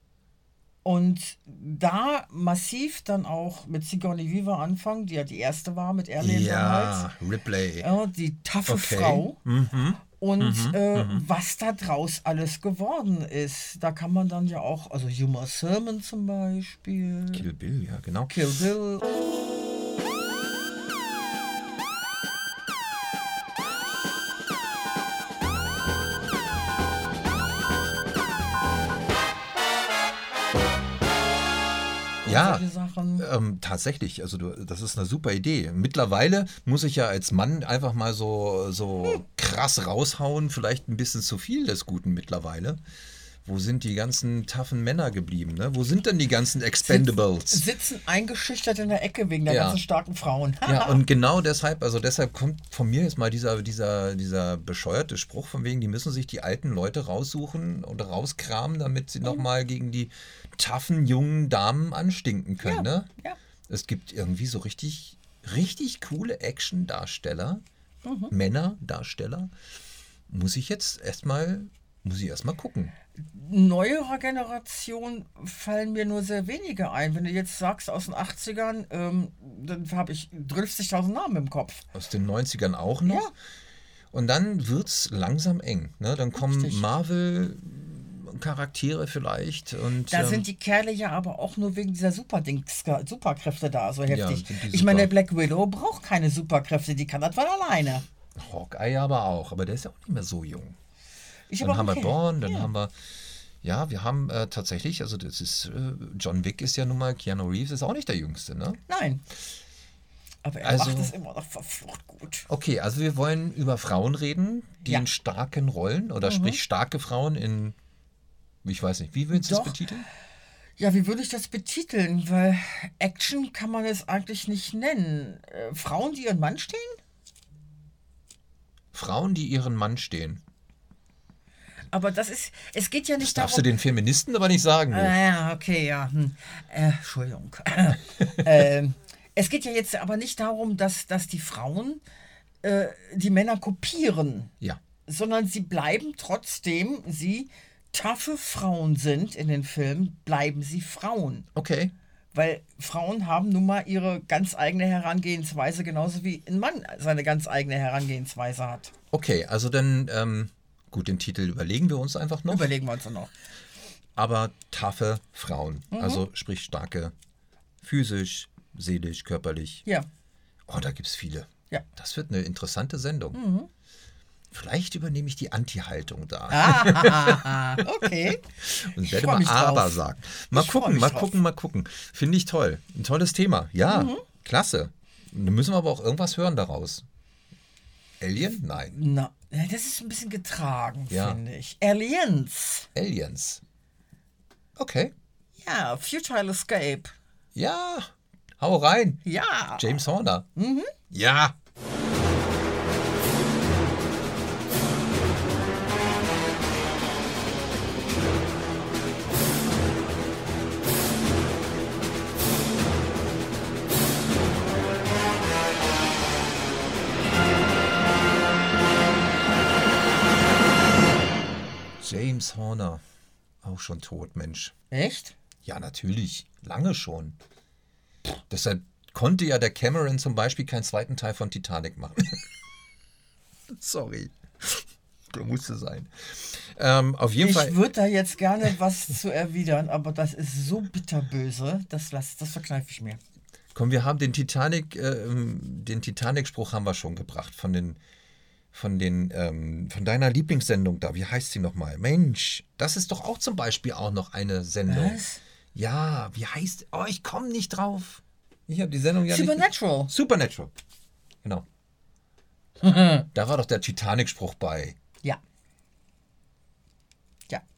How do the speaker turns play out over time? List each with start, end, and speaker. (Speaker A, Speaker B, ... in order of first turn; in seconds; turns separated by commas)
Speaker A: 0.8-7.1, Speaker B: 6.2-7.9, Speaker A: 7.8-9.4, Speaker B: 8.7-11.2, Speaker A: 10.2-17.4, Speaker B: 17.3-18.5, Speaker A: 18.3-19.1, Speaker B: 32.2-32.7, Speaker A: 32.2-33.3, Speaker B: 33.2-42.8, Speaker B: 43.4-47.6, Speaker A: 46.8-51.0, Speaker B: 49.5-49.8, Speaker B: 50.6-63.1, Speaker A: 62.6-63.4, Speaker B: 63.7-67.6, Speaker A: 68.0-68.3, Speaker B: 68.3-69.5, Speaker B: 70.3-72.9, Speaker A: 73.2-81.8, Speaker B: 81.9-83.3, Speaker A: 83.0-83.3, Speaker B: 84.1-90.5, Speaker A: 86.3-86.8, Speaker A: 90.1-98.0, Speaker B: 94.1-95.1, Speaker B: 98.3-100.8, Speaker A: 101.5-102.7, Speaker B: 101.6-102.9, Speaker B: 103.6-108.8, Speaker A: 108.9-109.2, Speaker A: 110.4-112.5, Speaker B: 110.6-111.1, Speaker B: 112.5-117.8, Speaker A: 116.2-116.6, Speaker B: 118.6-120.1, Speaker A: 119.3-119.8, Speaker A: 120.8-127.0, Speaker B: 128.9-130.4, Speaker A: 131.9-133.7, Speaker B: 133.2-135.1, Speaker A: 134.9-142.0, Speaker A: 142.6-144.5, Speaker A: 145.1-151.5, Speaker B: 151.5-151.9, Speaker A: 152.3-158.9, Speaker B: 159.1-162.7, Speaker A: 162.5-163.3, Speaker B: 164.2-167.1, Speaker A: 165.9-166.2, Speaker B: 167.8-169.8, Speaker B: 170.7-173.4, Speaker A: 173.3-173.7, Speaker B: 174.5-178.1, Speaker A: 176.5-178.4, Speaker B: 178.6-187.0, Speaker A: 179.0-180.0, Speaker A: 180.5-181.3, Speaker A: 183.9-184.2, Speaker B: 188.2-189.0, Speaker A: 188.8-192.9, Speaker B: 191.1-191.4, Speaker B: 192.9-193.6, Speaker B: 194.8-195.1, Speaker A: 195.6-197.1, Speaker B: 197.5-199.2, Speaker A: 199.2-200.0, Speaker B: 199.8-200.5, Speaker A: 200.6-200.9, Speaker B: 201.1-201.5, Speaker B: 222.0-223.0, Speaker B: 223.6-224.7, Speaker A: 224.9-225.3, Speaker B: 225.6-227.4, Speaker B: 228.5-232.4, Speaker B: 233.7-237.8, Speaker A: 237.4-243.2, Speaker B: 243.7-248.0, Speaker B: 248.7-255.2, Speaker A: 254.9-255.4, Speaker B: 255.7-260.7, Speaker A: 259.3-260.1, Speaker A: 262.8-263.3, Speaker B: 263.3-264.9